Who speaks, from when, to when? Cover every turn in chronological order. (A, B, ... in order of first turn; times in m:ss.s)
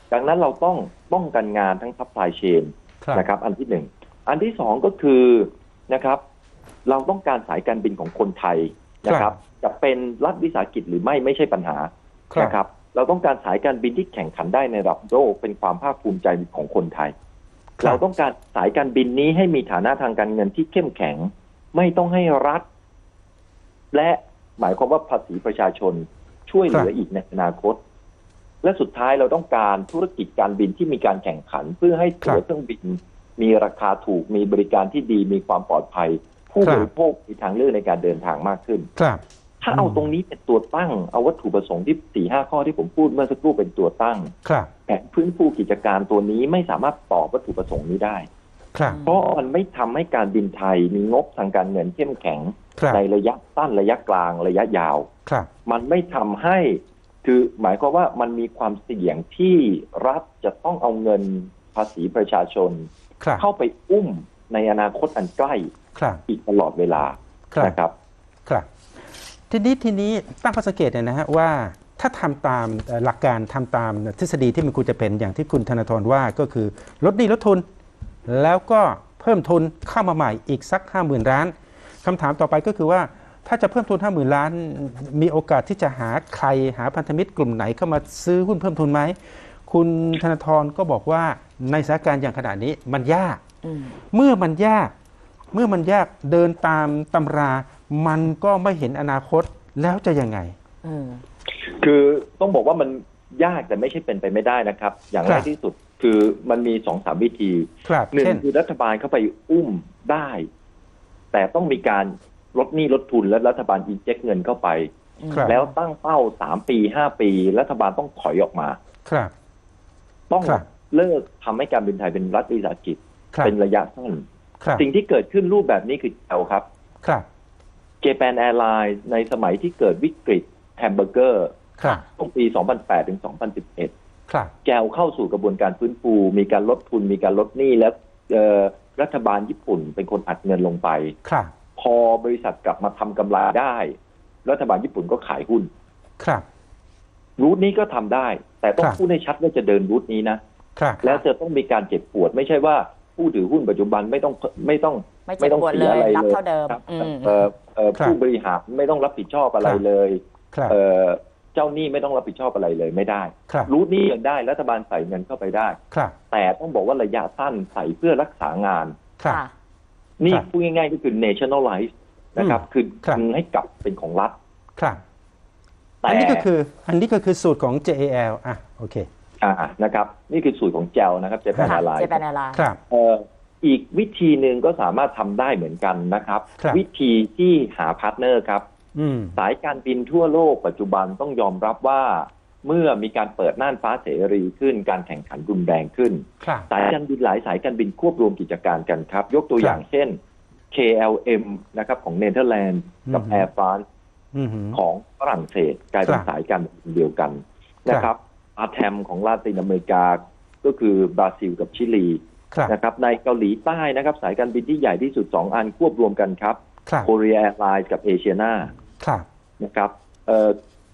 0:00.1-0:06.2 A
0:06.8-0:17.1 A
0:09.1-0:09.3 B
0:12.3-0:12.6 B
0:17.8-0:22.6 A
0:23.9-0:27.8 A
0:28.6-0:38.9 A
0:36.6-0:36.9 B
0:39.0-0:39.2 B
0:39.6-0:44.3 A
0:39.7-0:40.0 B
0:44.4-0:44.7 B
0:44.9-0:48.3 A
0:48.7-0:49.0 B
0:49.0-0:55.1 A
0:52.8-0:53.0 B
0:55.6-1:05.7 A
1:05.9-1:06.2 B
1:06.2-1:07.9 A
1:07.5-1:07.8 B
1:09.5-1:17.6 B
1:18.2-1:33.4 B
1:33.6-1:34.0 C
1:34.1-1:34.9 B
1:35.5-1:40.5 B
1:40.8-1:41.2 C
1:41.5-1:50.5 A
1:47.8-1:48.4 B
1:51.3-1:54.9 A
1:55.2-1:55.7 C
1:55.3-1:55.5 B
1:55.4-1:58.8 A
1:59.0-1:59.3 B
2:00.3-2:04.2 A
2:04.8-2:06.6 A
2:08.0-2:11.6 A
2:12.2-2:13.9 A
2:14.3-2:14.5 B
2:14.6-2:21.2 A
2:21.2-2:21.5 B
2:21.8-2:25.7 A
2:26.2-2:26.4 B
2:27.4-2:30.4 A
2:30.8-2:31.2 B
2:31.0-2:45.8 A
2:35.3-2:37.4 C
2:45.9-2:46.2 B
2:46.3-2:49.0 A
2:50.2-2:54.4 A
2:52.4-2:53.2 B
2:54.8-2:55.0 B
2:56.0-2:56.5 A
2:56.1-2:59.1 B
2:59.4-3:02.2 A
3:01.6-3:02.6 C
3:02.5-3:02.8 B
3:02.9-3:08.6 A
3:08.9-3:09.4 B
3:09.4-3:20.2 A
3:16.4-3:16.7 B
3:20.7-3:23.8 A
3:23.1-3:23.4 B
3:24.3-3:24.8 B
3:24.7-3:38.7 A
3:39.0-3:39.2 B
3:39.6-3:40.6 A